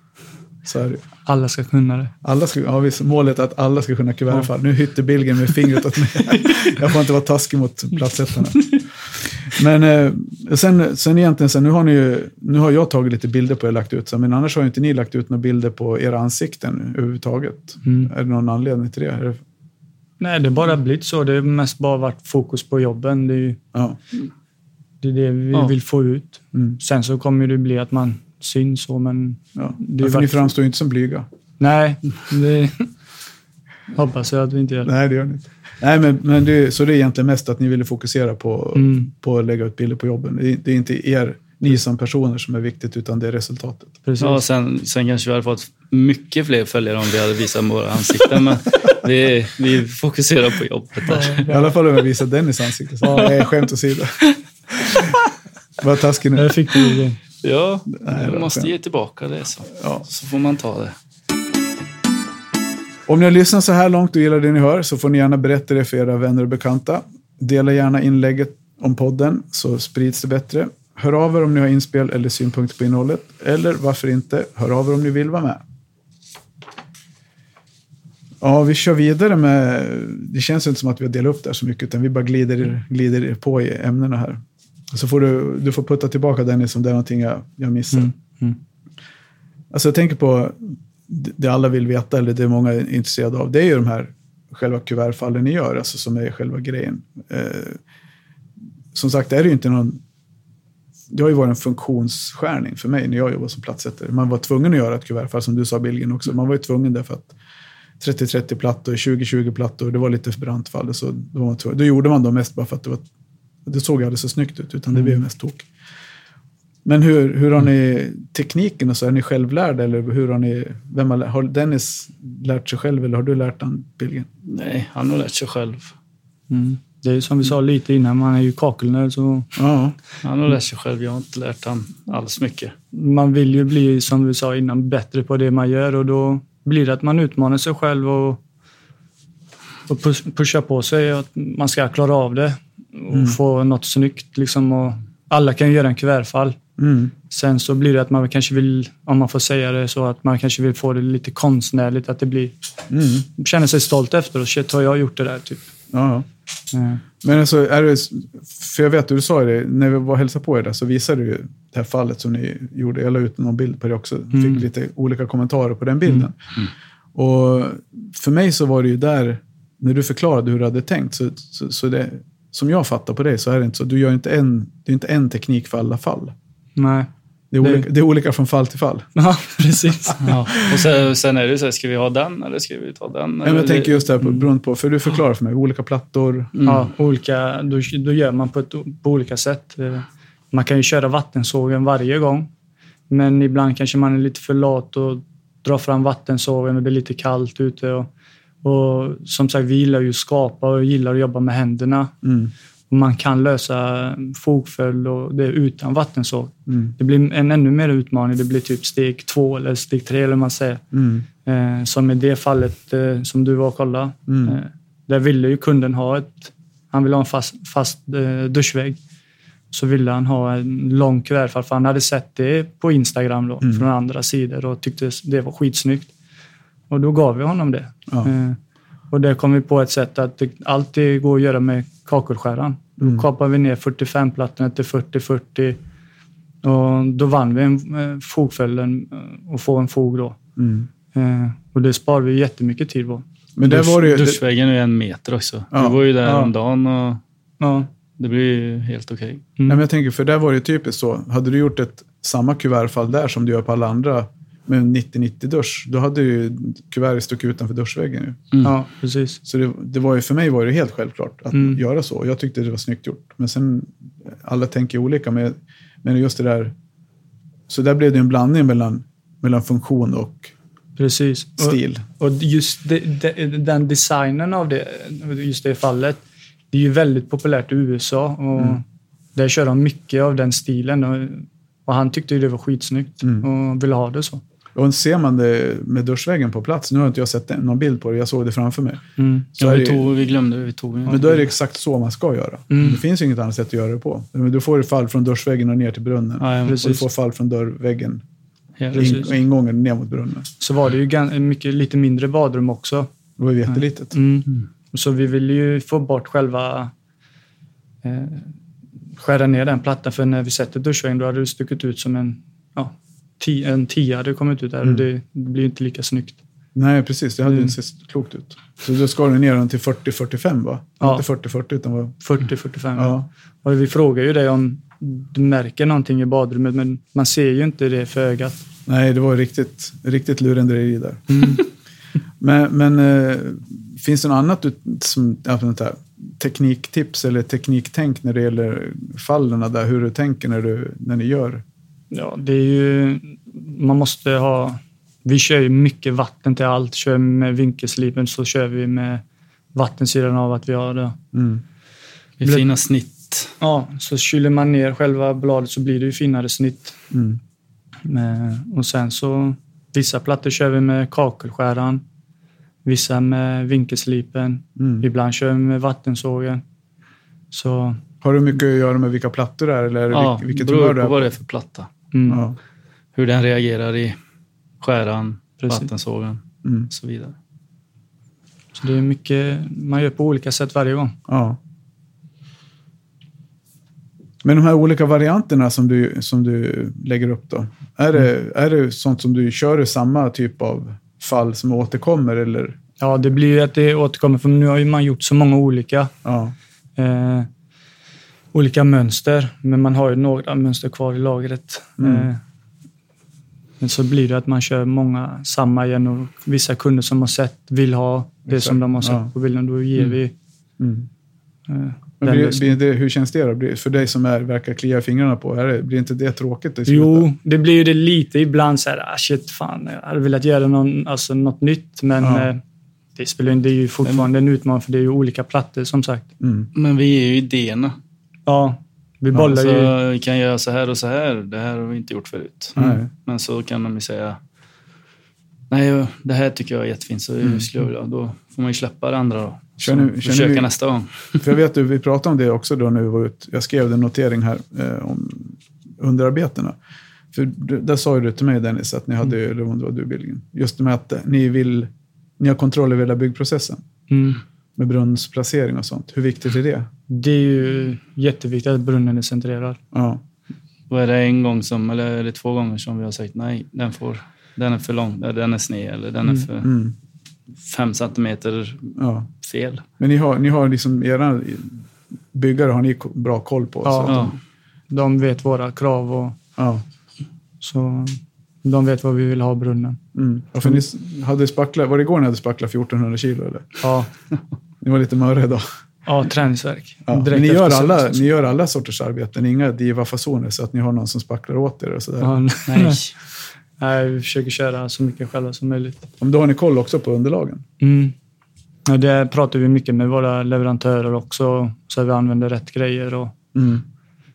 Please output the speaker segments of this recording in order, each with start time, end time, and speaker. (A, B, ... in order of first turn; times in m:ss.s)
0:00.6-0:01.0 A
0:01.2-0:02.1 B
0:02.2-0:19.4 A
0:17.8-0:18.1 B
0:20.2-0:23.6 B
0:25.0-0:30.5 B
0:29.6-0:31.3 A
0:31.6-0:32.9 B
0:33.9-0:34.9 B
0:34.8-0:44.0 A
0:38.7-0:39.1 B
0:44.0-0:44.4 B
0:44.2-0:51.5 C
0:51.1-0:51.6 B
0:51.5-0:54.3 A
0:53.0-0:53.4 B
0:54.8-0:55.1 A
0:55.8-0:56.5 A
0:56.3-0:57.2 B
0:57.4-1:00.9 C
0:58.0-0:58.7 A
0:59.7-1:00.0 A
1:03.1-1:15.6 A
1:18.4-1:28.1 A
1:27.9-1:28.6 B
1:29.7-1:37.8 A
1:38.9-1:40.0 A
1:41.1-1:47.3 A
1:48.0-1:53.0 A
1:53.6-1:55.7 A
1:56.8-2:04.3 A
2:04.4-2:05.9 C
2:06.5-2:09.5 B
2:09.6-2:10.0 A
2:10.2-2:12.7 C
2:12.9-2:18.4 B
2:19.9-2:26.6 B
2:23.1-2:23.4 A
2:26.8-2:27.1 A
2:27.3-2:32.6 B
2:32.9-2:33.2 A
2:33.3-2:35.7 B
2:35.9-2:36.3 A
2:36.7-2:37.0 B
2:37.2-2:46.5 A
2:44.3-2:44.6 B
2:47.1-2:56.3 A
2:56.8-2:57.1 B
2:57.5-2:59.1 A
2:57.6-2:57.9 B
2:59.1-3:00.4 B
3:00.2-3:04.0 C
3:03.4-3:06.5 A
3:06.6-3:06.9 C
3:06.6-3:12.5 B
3:13.1-3:18.1 B
3:18.6-3:22.1 B
3:22.2-3:22.5 A
3:22.9-3:30.8 B
3:26.7-3:26.9 A
3:30.9-3:31.2 A
3:31.4-3:39.0 B
3:34.3-3:34.6 A
3:39.7-3:46.1 B
3:46.9-3:48.6 B
3:49.1-3:55.8 B
3:53.0-3:53.2 A
3:56.6-4:00.4 B
4:00.6-4:00.9 A
4:01.1-4:03.2 B
4:03.6-4:04.4 A
4:03.6-4:07.2 C
4:05.7-4:06.5 A
4:07.6-4:07.9 B
4:08.2-4:09.4 C
4:09.7-4:18.5 A
4:18.6-4:19.4 B
4:19.4-4:26.7 A
4:21.5-4:21.8 B
4:27.7-4:30.5 A
4:31.0-4:36.2 B
4:31.6-4:32.0 A
4:36.7-4:38.8 B
4:39.3-4:44.4 B
4:44.7-4:49.0 A
4:49.2-4:49.5 B
4:49.6-4:50.1 A
4:49.6-4:51.3 C
4:51.1-4:51.4 B
4:51.1-4:58.2 A
4:52.7-4:53.0 B
4:56.4-4:56.9 C
4:56.6-4:57.0 B
4:58.8-4:59.2 C
4:58.9-4:59.3 B
4:58.9-5:00.5 A
5:00.6-5:03.1 B
5:03.4-5:04.1 A
5:03.7-5:06.9 B
5:08.0-5:08.5 B
5:09.2-5:16.4 B
5:16.7-5:22.2 A
5:22.2-5:28.6 B
5:23.0-5:23.2 A
5:28.8-5:31.6 A
5:31.3-5:31.6 B
5:32.4-5:41.6 A
5:42.1-5:51.2 B
5:51.3-5:51.6 A
5:52.4-5:53.5 C
5:53.6-5:57.0 B
5:57.1-5:57.4 A
5:58.0-6:02.0 B
6:02.8-6:06.6 B
6:04.8-6:05.0 A
6:07.5-6:08.0 B
6:08.2-6:11.3 A
6:10.1-6:11.9 C
6:12.1-6:12.4 B
6:12.3-6:12.6 A
6:13.1-6:14.2 C
6:14.8-6:17.3 C
6:15.6-6:15.9 B
6:16.6-6:16.9 A
6:18.8-6:21.1 B
6:21.3-6:21.6 A
6:24.4-6:32.8 A
6:33.0-6:36.1 B
6:36.2-6:36.5 A
6:37.0-6:37.5 B
6:38.5-6:42.4 B
6:42.0-6:42.3 A
6:43.8-6:50.3 B
6:48.5-6:49.3 A
6:50.8-6:51.1 A
6:51.7-6:52.8 B
6:52.2-6:57.3 A
6:56.9-7:02.6 B
7:02.2-7:02.5 A
7:03.2-7:06.3 B
7:06.4-7:06.7 A
7:06.7-7:08.0 C
7:08.5-7:09.9 B
7:09.3-7:14.4 C
7:12.8-7:13.1 A
7:15.7-7:21.5 C
7:19.8-7:20.7 A
7:21.4-7:26.8 A
7:27.3-7:33.8 A
7:34.1-7:34.4 B
7:34.8-7:36.9 A
7:37.1-7:39.8 B
7:39.9-7:40.2 A
7:40.9-7:46.7 C
7:46.6-7:46.9 A
7:47.6-7:49.8 C
7:49.0-7:49.3 A
7:50.0-7:54.3 A
7:53.8-7:54.3 B
7:54.1-7:54.3 C
7:54.9-7:56.4 B
7:56.6-7:56.8 A
7:57.6-8:00.0 B
8:00.1-8:03.8 A
8:03.8-8:04.1 B
8:04.8-8:05.7 A
8:06.0-8:08.2 B
8:07.1-8:12.4 A
8:12.2-8:13.0 B
8:12.7-8:13.1 C
8:13.8-8:16.1 B
8:16.2-8:17.6 A
8:17.8-8:18.1 B
8:18.8-8:23.3 B
8:23.5-8:23.8 A